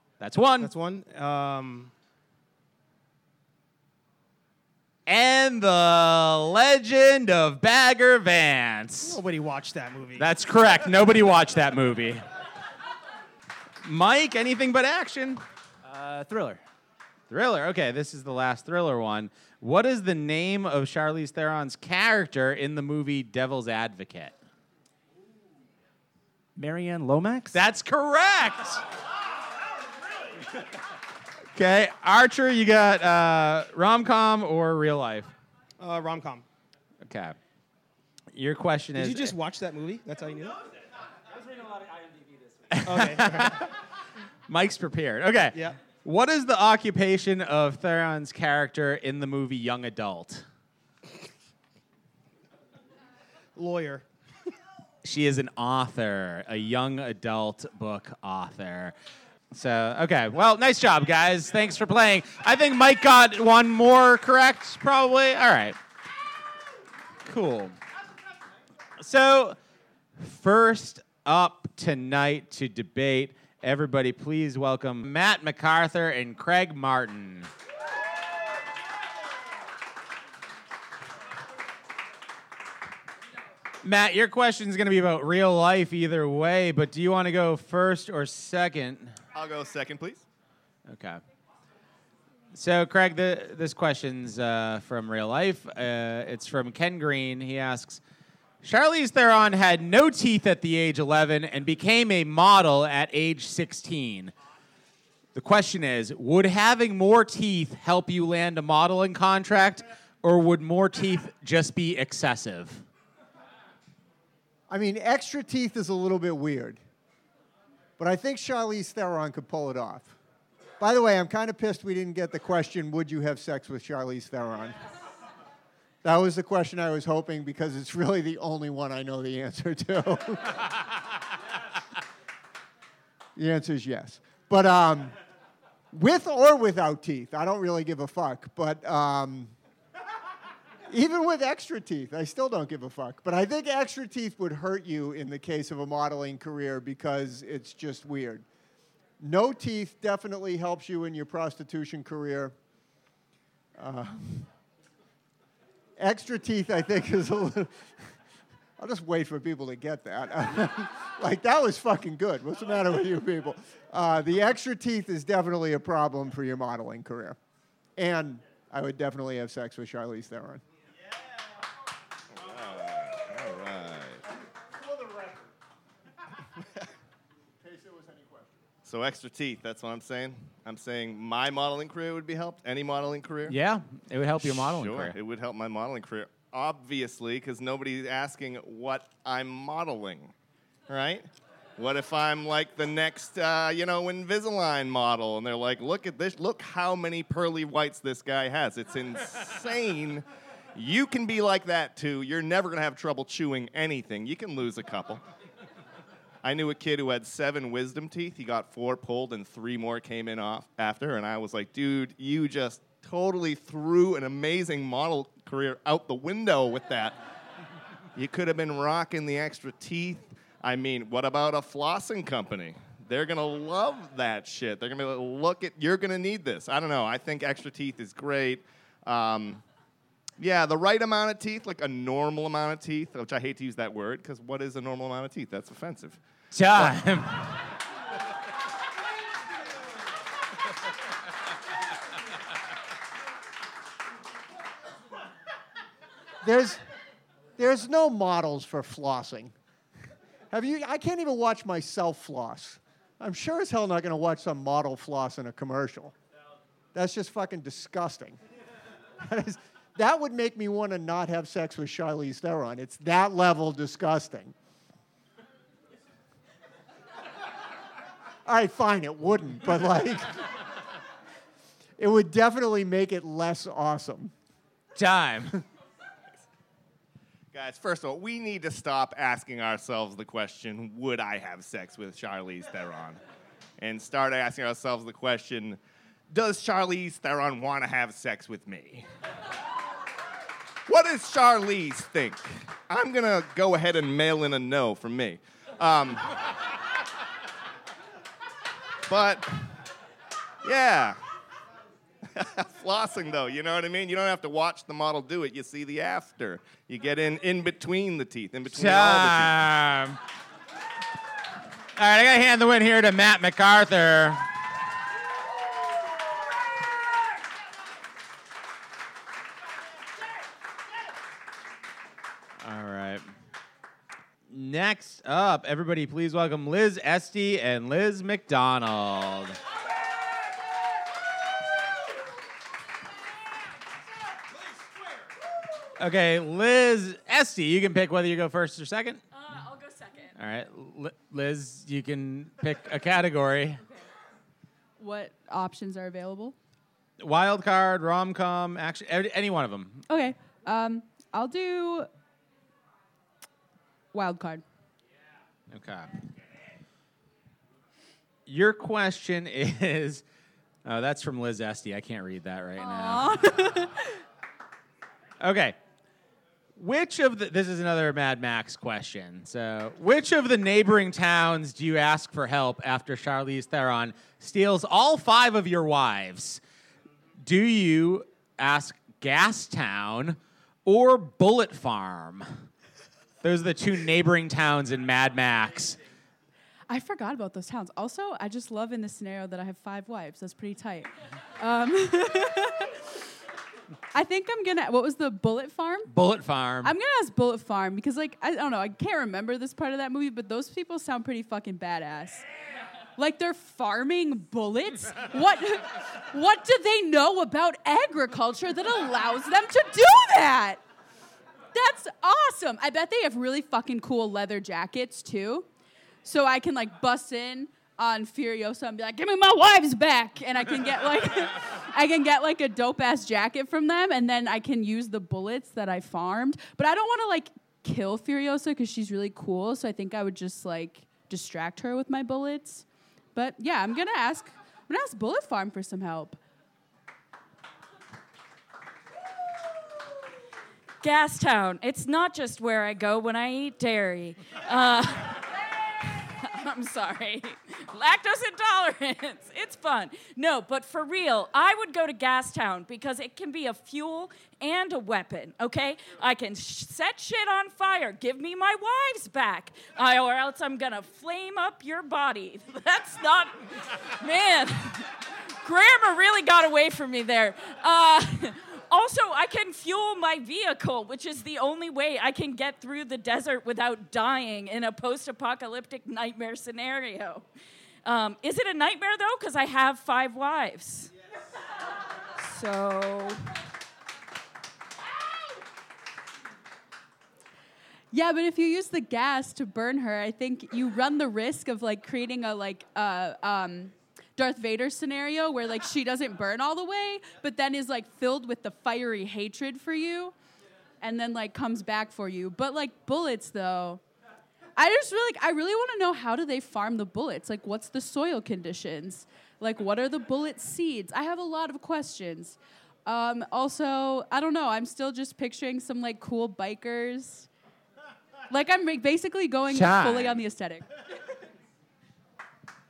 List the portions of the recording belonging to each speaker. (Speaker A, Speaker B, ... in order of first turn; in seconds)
Speaker A: 0.2-0.7, 5.1-9.2, 10.2-12.2, 13.8-15.4, 17.3-24.4, 27.5-28.8, 31.6-35.3, 37.0-37.4, 38.3-39.4, 42.7-43.7, 44.5-50.5, 55.0-58.9, 59.5-65.8, 67.3-67.8, 69.0-69.6, 70.2-77.5, 83.8-89.1, 90.9-91.2, 92.5-98.0, 98.6-104.3, 105.3-112.8, 183.5-185.1, 236.5-237.5, 275.0-275.6, 308.7-310.2, 312.0-314.5, 322.6-323.2, 324.5-329.6, 336.0-339.2, 340.4-343.8, 347.2-350.0, 355.7-356.1, 358.5-360.2, 360.9-363.6, 365.4-365.8, 366.8-376.6, 377.4-382.6, 383.4-386.0, 396.1-396.9, 519.7-520.4
Speaker B: 0.6-1.9, 9.0-10.3, 35.8-36.5, 39.0-40.6, 42.9-43.6, 53.6-54.1
Speaker C: 15.8-16.6, 26.6-27.6, 41.3-42.5
Speaker D: 89.3-90.2, 172.3-174.2, 178.9-183.6, 184.4-190.3, 190.9-205.2, 206.4-217.2, 218.2-229.6, 230.4-236.2, 277.5-283.2, 283.8-285.8, 286.3-289.1, 290.9-296.4, 299.1-299.8, 300.6-301.2, 302.3-309.6
Speaker E: 114.7-116.8, 118.0-120.2, 120.8-124.8, 126.0-130.8, 133.4-135.2, 135.9-139.5, 140.9-148.4, 149.2-152.5, 153.8-154.5, 156.0-158.1, 158.8-167.4, 168.0-170.6, 177.6-178.6, 246.4-246.8, 247.6-249.5, 250.5-256.1, 256.9-258.4, 259.2-264.5, 268.5-270.6, 272.0-274.3
Speaker F: 339.3-340.4, 441.0-477.5, 478.1-481.1, 482.4-483.5
Speaker G: 345.0-346.6, 350.1-352.1, 354.1-354.6, 362.8-364.1, 386.9-393.0, 394.1-396.1, 396.8-402.4, 403.2-410.8, 411.7-415.7, 416.2-436.4, 488.1-500.4, 501.0-504.0, 504.8-517.5, 518.5-520.9